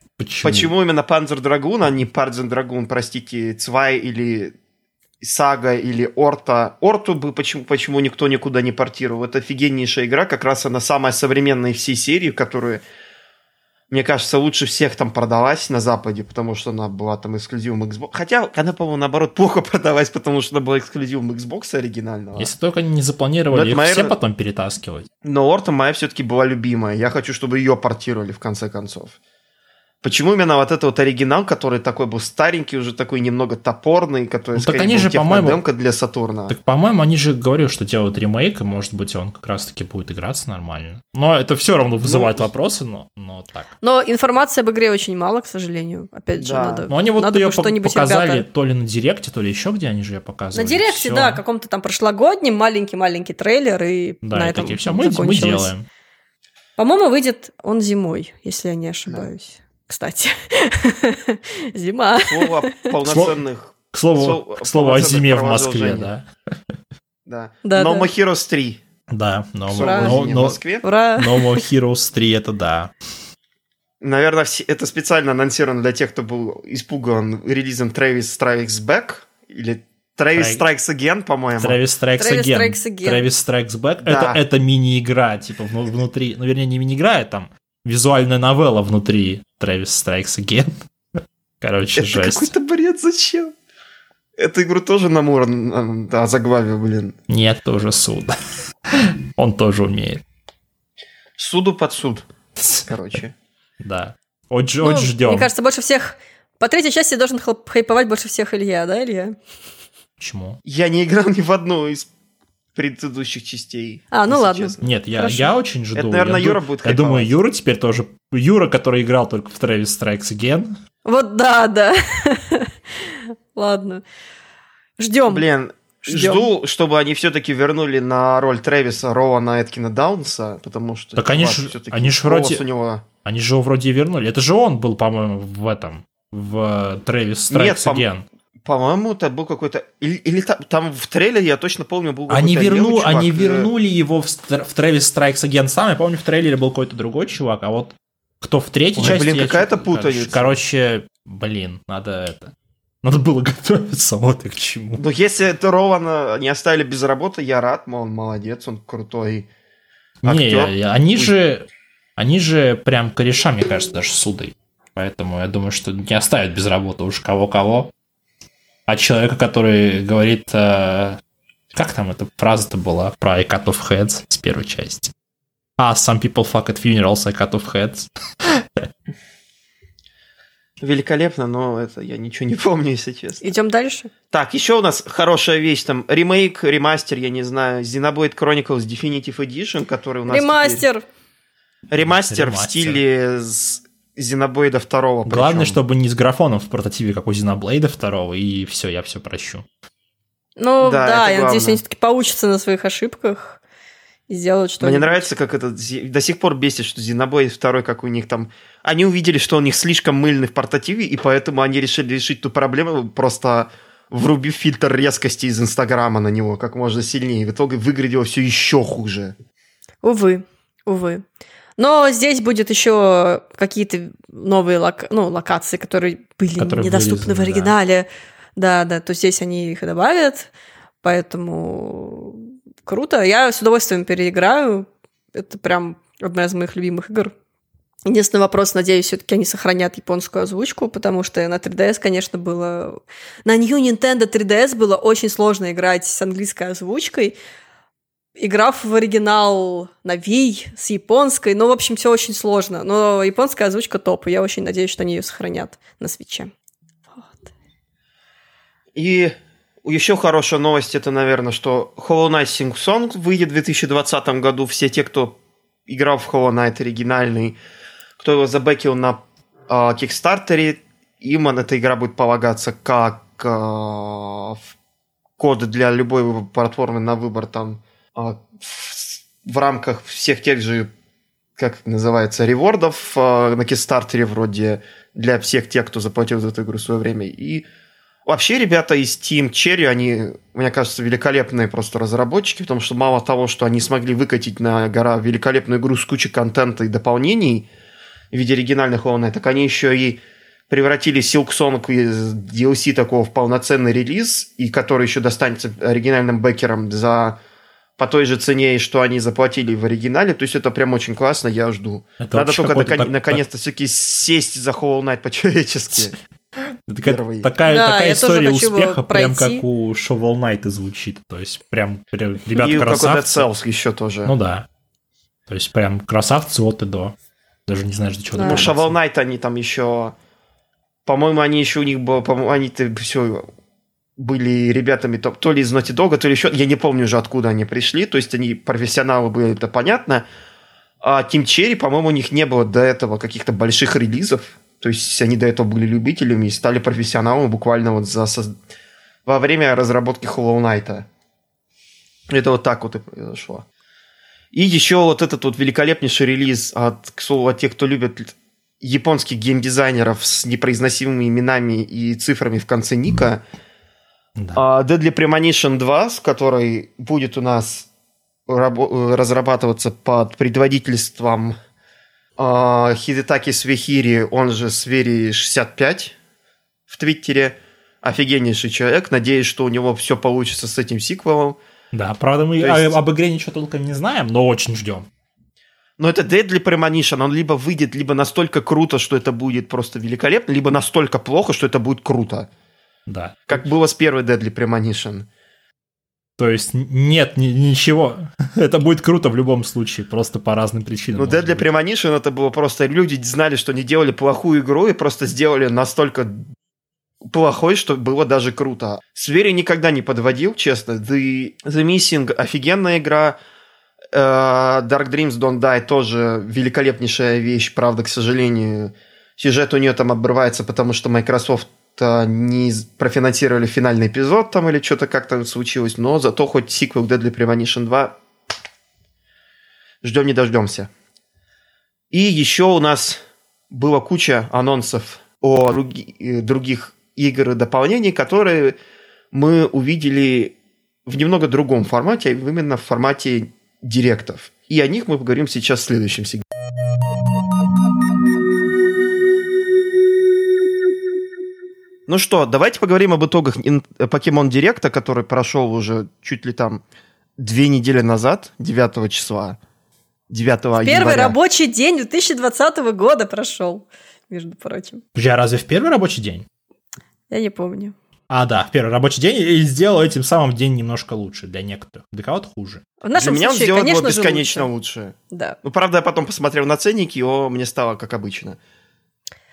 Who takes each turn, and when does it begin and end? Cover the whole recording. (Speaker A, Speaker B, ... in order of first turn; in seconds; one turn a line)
Speaker A: 0.2-0.7
Speaker B: 0.4-4.5
Speaker B: 5.2-12.8
Speaker B: 13.9-22.5
Speaker A: 22.4-25.1
Speaker B: 23.5-24.1
Speaker B: 25.2-29.2
Speaker B: 30.0-36.5
Speaker A: 34.5-35.6
Speaker A: 36.5-43.7
Speaker B: 42.0-42.5
Speaker C: 43.8-48.4
Speaker B: 46.4-46.9
Speaker A: 46.9-51.4
Speaker C: 50.5-55.7
Speaker A: 54.2-55.9
Speaker C: 56.8-62.6
Speaker B: 62.2-66.1
Speaker A: 63.1-63.3
Speaker A: 63.9-66.3
Speaker B: 67.3-68.8
Speaker C: 67.7-68.1
Speaker A: 69.1-70.6
Speaker B: 69.7-70.8
Speaker C: 69.8-70.2
Speaker C: 70.8-71.6
Speaker A: 71.2-72.9
Speaker B: 74.0-81.8
Speaker A: 80.3-80.6
Speaker A: 81.6-90.7
Speaker C: 82.2-83.3
Speaker B: 84.0-84.4
Speaker A: 91.6-92.5
Speaker B: 92.0-93.5
Speaker B: 94.4-97.2
Speaker A: 97.3-98.4
Speaker A: 98.9-100.2
Speaker B: 101.4-102.3
Speaker A: 102.6-102.8
Speaker B: 102.8-103.3
Speaker A: 103.8-105.5
Speaker C: 104.8-109.4
Speaker A: 110.2-110.6
Speaker B: 110.7-112.1
Speaker B: 112.8-115.3
Speaker C: 114.1-115.4
Speaker A: 114.8-120.8
Speaker B: 116.0-117.3
Speaker C: 121.0-124.0
Speaker C: 125.0-125.5
Speaker B: 125.3-133.0
Speaker C: 126.1-126.5
Speaker A: 131.2-132.6
Speaker A: 133.2-138.2
Speaker B: 137.5-138.1
Speaker B: 138.6-143.7
Speaker A: 142.3-155.0
Speaker B: 149.0-150.6
Speaker B: 155.0-159.5
Speaker A: 160.2-161.7
Speaker B: 160.2-161.3
Speaker A: 162.2-167.9
Speaker A: 168.9-171.2
Speaker A: 171.7-175.1
Speaker A: 175.8-178.6
Speaker B: 180.8-183.5
Speaker C: 183.4-184.1
Speaker B: 184.3-190.8
Speaker C: 190.3-191.1
Speaker B: 191.9-195.8
Speaker A: 192.0-193.0
Speaker A: 195.3-199.7
Speaker C: 200.6-203.6
Speaker B: 200.8-201.8
Speaker C: 204.3-205.3
Speaker B: 204.8-219.3
Speaker C: 220.0-221.2
Speaker C: 221.8-230.5
Speaker A: 226.6-227.7
Speaker C: 231.0-237.3
Speaker C: 238.1-247.3
Speaker C: 248.4-256.5
Speaker B: 258.9-267.6
Speaker B: 268.2-274.6
Speaker B: 275.4-280.9
Speaker B: 281.6-287.6
Speaker B: 288.3-297.7
Speaker B: 298.3-307.4
Speaker B: 308.0-316.2
Speaker A: 312.2-313.4
Speaker A: 316.9-323.4
Speaker B: 317.1-317.5
Speaker C: 317.6-319.6
Speaker B: 322.5-324.3
Speaker A: 324.3-324.6
Speaker A: 325.5-327.1
Speaker A: 327.7-328.9
Speaker C: 328.3-328.7
Speaker B: 328.4-330.1
Speaker B: 331.1-333.5
Speaker B: 334.2-340.3
Speaker B: 341.0-348.6
Speaker B: 349.3-351.1
Speaker B: 352.3-353.6
Speaker B: 354.5-363.4
Speaker B: 364.5-367.9
Speaker B: 368.5-371.6
Speaker B: 372.4-376.1
Speaker B: 376.9-381.6
Speaker A: 381.9-385.1
Speaker B: 382.6-383.0
Speaker B: 386.0-392.5
Speaker A: 393.1-393.6
Speaker B: 393.5-395.3
Speaker A: 396.4-401.7
Speaker B: 401.2-406.4
Speaker B: 407.2-413.4
Speaker B: 414.1-428.2
Speaker B: 430.0-430.9
Speaker B: 432.1-438.8
Speaker B: 439.3-440.6
Speaker B: 441.1-446.4
Speaker B: 452.1-456.8
Speaker B: 457.4-459.6
Speaker B: 460.3-461.4
Speaker C: 460.8-465.0
Speaker A: 465.1-466.5
Speaker C: 467.3-467.9
Speaker A: 468.3-472.9
Speaker C: 473.0-474.7
Speaker B: 473.1-478.6